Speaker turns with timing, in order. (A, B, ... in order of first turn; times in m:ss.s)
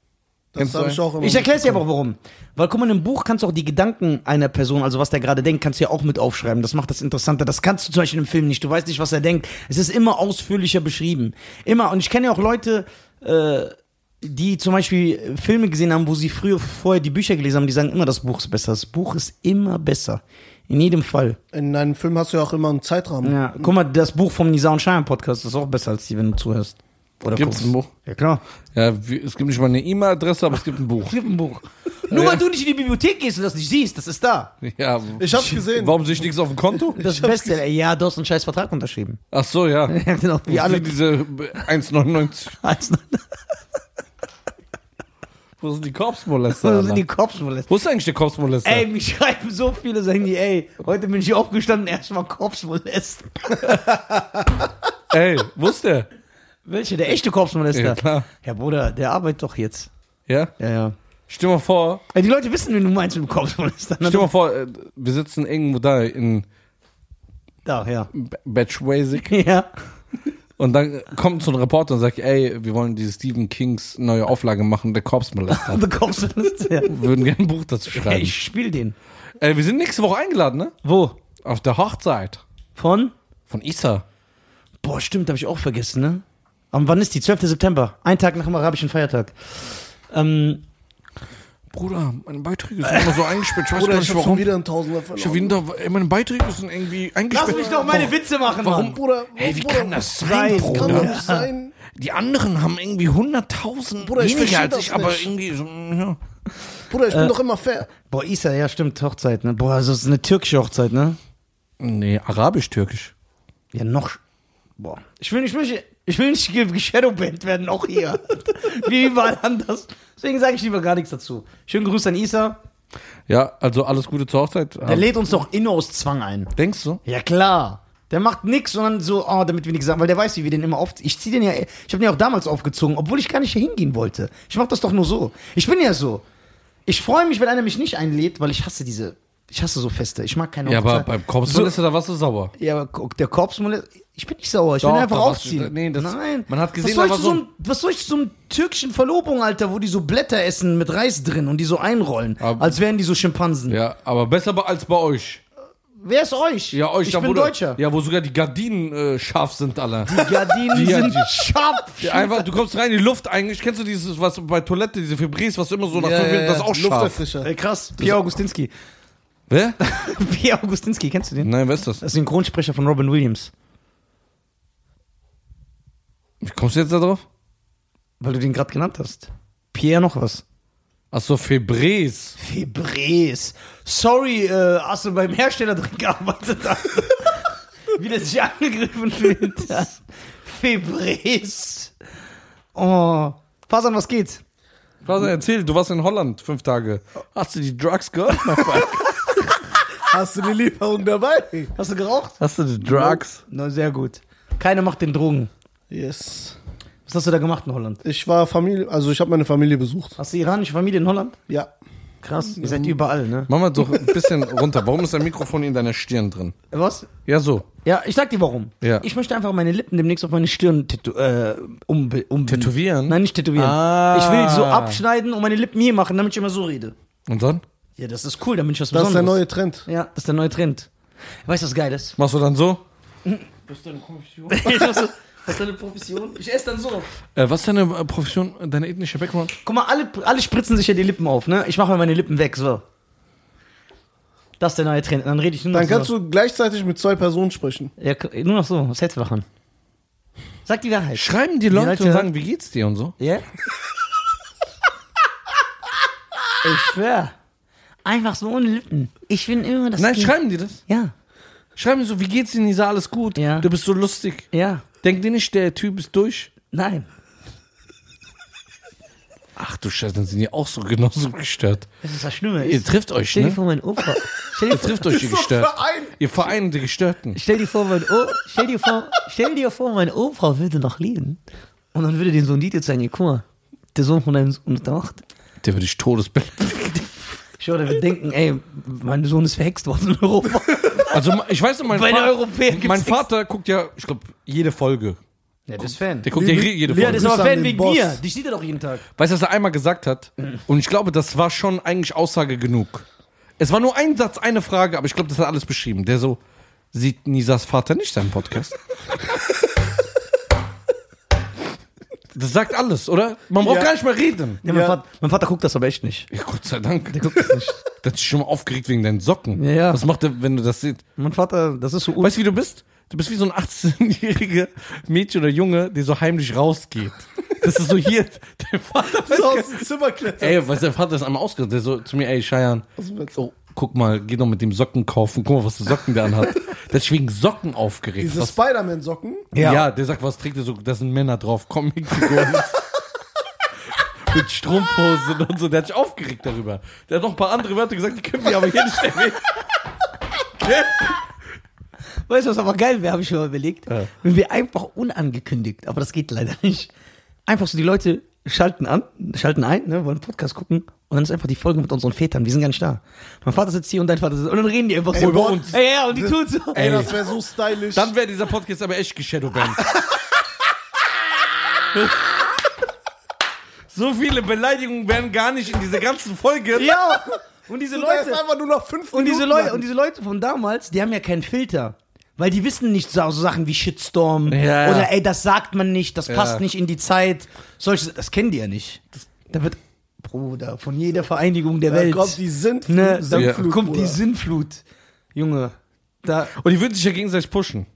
0:00.5-0:01.8 A
0:00.6-0:01.0 B
0:01.2-0:21.4 C
0:21.5-0:23.7 A
0:23.2-0:28.4 C
0:27.3-0:27.9 B
0:28.7-0:31.1 B
0:31.0-0:34.5 C
0:32.1-0:32.4 B
0:34.6-0:37.0 B
0:35.2-0:36.0 A
0:37.0-0:39.2 C
0:37.0-0:37.5 A
0:39.3-0:42.6 B
0:39.9-0:40.9 C
0:42.6-0:43.3 C
0:45.6-0:47.0 B
0:46.6-0:47.7 C
0:47.7-0:48.8 B
0:48.6-0:54.6 C
0:55.1-0:56.1 B
0:56.6-0:59.9 C
0:57.7-0:58.3 B
1:00.6-1:01.0 C
1:01.3-1:02.0 B
1:02.1-1:04.3 C
1:04.0-1:06.4 B
1:07.6-1:08.1 C
1:08.1-1:09.3 B
1:09.3-1:09.7 C
1:10.6-1:15.9 B
1:15.5-1:17.1 C
1:16.8-1:18.3 B
1:17.9-1:18.9 C
1:19.4-1:20.7 B
1:20.8-1:21.2 C
1:21.4-1:22.4 B
1:22.8-1:23.1 C
1:23.5-1:24.0 B
1:24.8-1:30.6 C
1:31.7-1:34.5 B
1:32.8-1:33.4 C
1:33.7-1:35.6 A
1:35.2-1:41.2 B
1:37.3-1:39.0 C
1:37.5-1:37.9 A
1:38.8-1:41.7 A
1:40.2-1:41.5 C
1:41.9-1:46.2 B
1:44.0-1:45.3 A
1:46.9-1:47.9 A
1:47.1-1:47.3 C
1:48.0-1:51.2 C
1:51.8-1:53.1 B
1:53.7-1:54.2 C
1:54.8-2:02.6 C
2:03.3-2:05.1 B
2:04.8-2:06.5 C
2:06.6-2:07.0 B
2:07.0-2:16.2 C
2:16.9-2:21.7 C
2:20.7-2:22.5 B
2:22.6-2:33.8 C
2:24.8-2:27.4 B
2:32.4-2:32.8 B
2:33.7-2:35.4 B
2:36.0-2:37.8 C
2:36.7-2:41.3 B
2:40.0-2:42.4 C
2:42.0-2:47.2 B
2:45.9-2:47.5 A
2:47.4-2:48.7 C
2:48.0-2:48.3 B
2:49.5-2:49.8 B
2:49.8-2:53.5 C
2:51.4-2:52.0 B
2:56.4-2:57.2 B
2:58.2-3:00.4 C
3:01.1-3:02.4 B
3:02.4-3:11.9 C
3:12.7-3:14.4 C
3:15.0-3:19.4 B
3:20.1-3:21.7 A
3:21.8-3:22.4 C
3:22.4-3:23.4 B
3:22.8-3:23.2 A
3:23.5-3:25.5 C
3:25.9-3:26.6 A
3:27.1-3:28.0 C
3:28.0-3:30.2 A
3:30.2-3:31.4 C
3:32.2-3:33.5 C
3:32.6-3:32.9 A
3:33.5-3:36.5 B
3:36.7-3:37.1 C
3:37.2-3:37.6 B
3:37.8-3:46.9 C
3:42.5-3:45.0 B
3:47.3-3:47.6 B
3:48.0-3:50.9 C
3:48.9-3:49.9 A
3:51.4-3:52.2 C
3:52.2-3:52.8 B
3:53.7-3:55.0 B
3:54.5-3:57.1 C
3:57.3-3:59.5 B
3:59.6-4:02.8 C
4:04.6-4:06.1 C
4:05.7-4:07.9 A
4:08.0-4:09.4 C
4:10.6-4:12.3 C
4:11.1-4:13.1 B
4:13.2-4:13.4 C
4:16.6-4:17.3 C
4:18.0-4:20.3 C
4:20.0-4:20.8 B
4:20.9-4:21.1 C
4:21.8-4:24.5 B
4:23.4-4:23.7 C
4:24.5-4:24.8 C
4:25.0-4:26.5 B
4:26.7-4:27.0 C
4:29.6-4:31.9 B
4:32.0-4:35.1 C
4:32.6-4:33.6 B
4:34.7-4:37.4 B
4:35.0-4:36.2 A
4:37.3-4:41.4 C
4:41.9-4:43.4 C
4:43.9-4:45.2 C
4:45.6-4:47.1 B
4:47.6-4:51.2 C
4:51.1-4:55.2 B
4:51.9-4:53.2 C
4:55.7-4:56.3 C
4:55.8-4:57.3 B
4:56.3-4:58.2 A
4:56.9-4:59.0 C
4:59.2-5:03.0 B
5:03.6-5:06.4 B
5:06.9-5:08.8 B
5:12.3-5:14.6 B
5:13.6-5:13.9 A
5:14.6-5:15.0 A
5:14.6-5:16.3 C
5:16.3-5:21.0 B
5:17.1-5:17.8 C
5:19.6-5:20.0 C
5:21.2-5:22.3 C
5:22.2-5:29.8 B
5:29.3-5:30.6 A
5:30.4-5:38.6 B
5:33.0-5:33.3 A
5:38.2-5:39.5 A
5:39.5-5:39.8 C
5:39.6-5:42.8 B
5:44.3-5:49.5 B
5:50.6-5:51.1 B
5:52.3-5:56.9 C
5:57.5-6:07.1 C
6:05.1-6:05.8 B
6:06.1-6:08.1 A
6:06.8-6:07.3 B
6:07.9-6:09.9 B
6:13.9-6:16.9 B
6:16.7-6:18.4 C
6:17.9-6:19.8 A
6:19.1-6:34.8 C
6:24.5-6:25.1 B
6:26.3-6:26.6 B
6:31.9-6:34.2 A
6:33.3-6:33.6 B
6:35.3-6:36.5 C
6:36.5-6:37.9 B